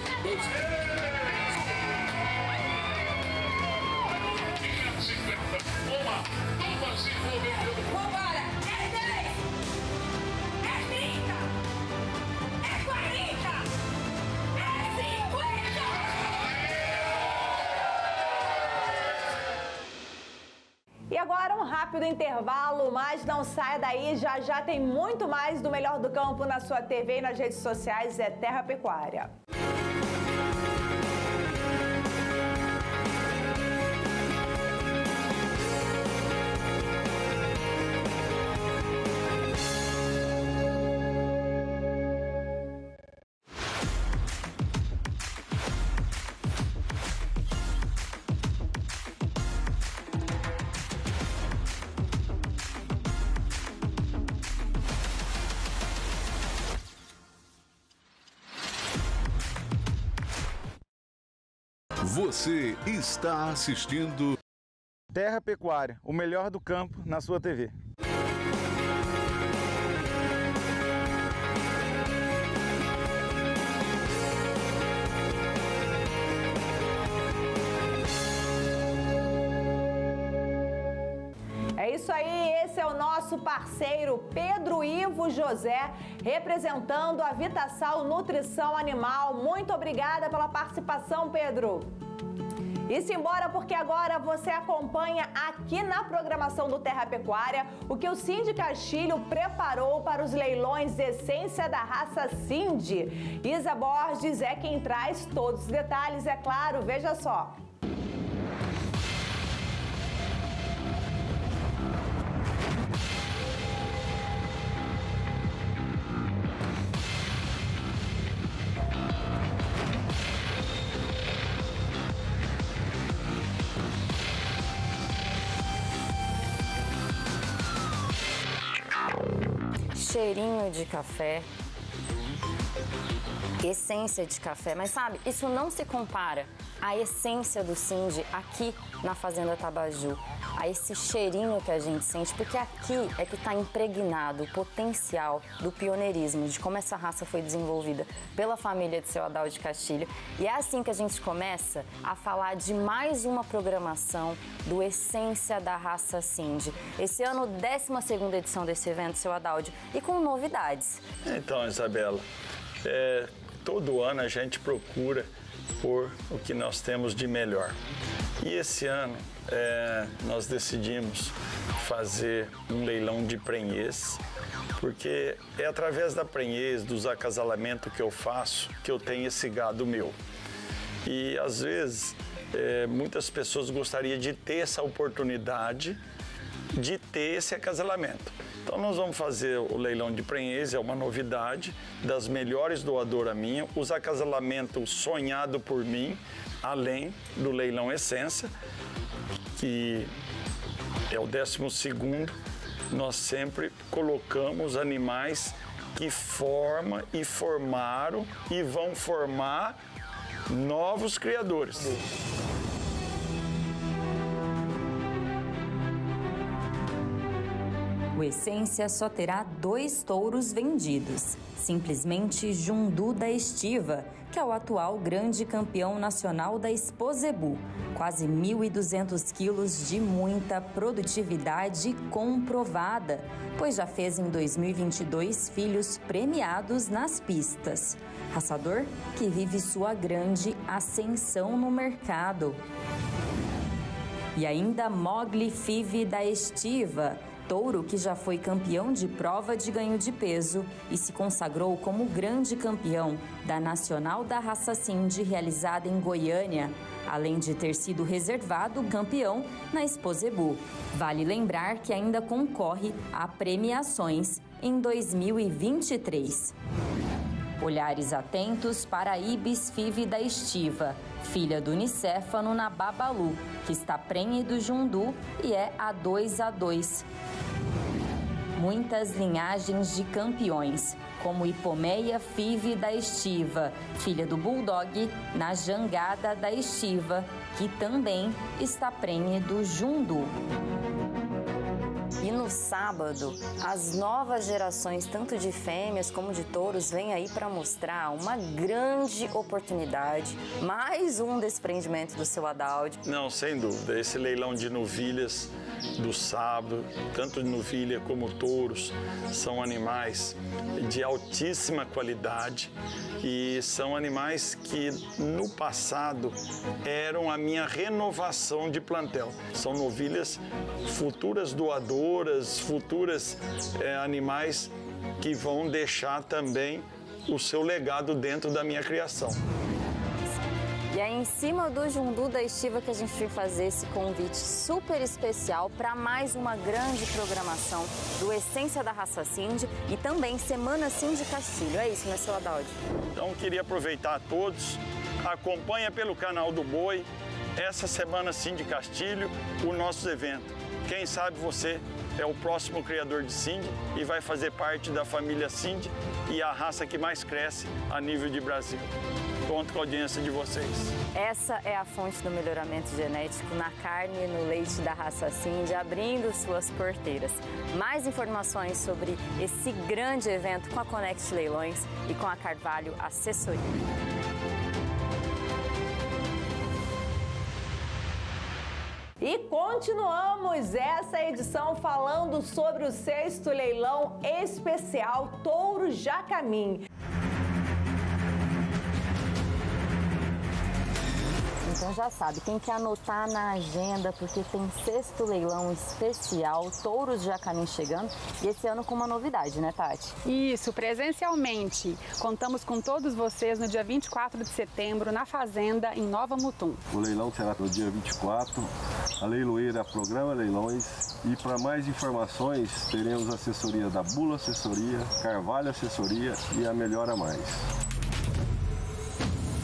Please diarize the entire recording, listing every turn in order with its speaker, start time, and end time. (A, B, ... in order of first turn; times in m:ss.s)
0:07.7-0:09.3 A
0:10.8-0:11.3 A
0:12.7-0:13.6 A
0:14.8-0:15.8 A
0:21.1-0:29.3 A
1:02.0-1:04.4 B
1:05.1-1:07.8 C
1:21.8-1:31.9 A
1:32.9-1:47.6 A
2:09.9-2:11.5 D
2:13.6-2:41.0 D
2:41.2-2:42.2 E
2:42.8-2:45.3 E
2:45.8-2:47.8 E
2:48.4-2:54.2 E
2:54.8-3:00.2 E
3:01.0-3:06.0 E
3:06.8-3:18.5 E
3:19.6-3:20.1 E
3:21.1-3:22.4 E
3:22.9-3:29.8 E
3:30.5-3:32.0 E
3:38.2-4:02.6 D
4:04.4-4:26.5 D
4:27.6-4:37.0 D
4:38.6-4:50.3 D
4:52.2-5:03.0 D
5:03.0-5:29.4 E
5:30.9-5:42.8 D
5:43.2-5:58.9 E
5:59.5-6:01.0 E
6:01.1-6:13.7 D
6:19.2-6:26.8 A
6:31.6-6:40.2 D
6:40.3-6:46.8 F
6:46.9-6:57.6 G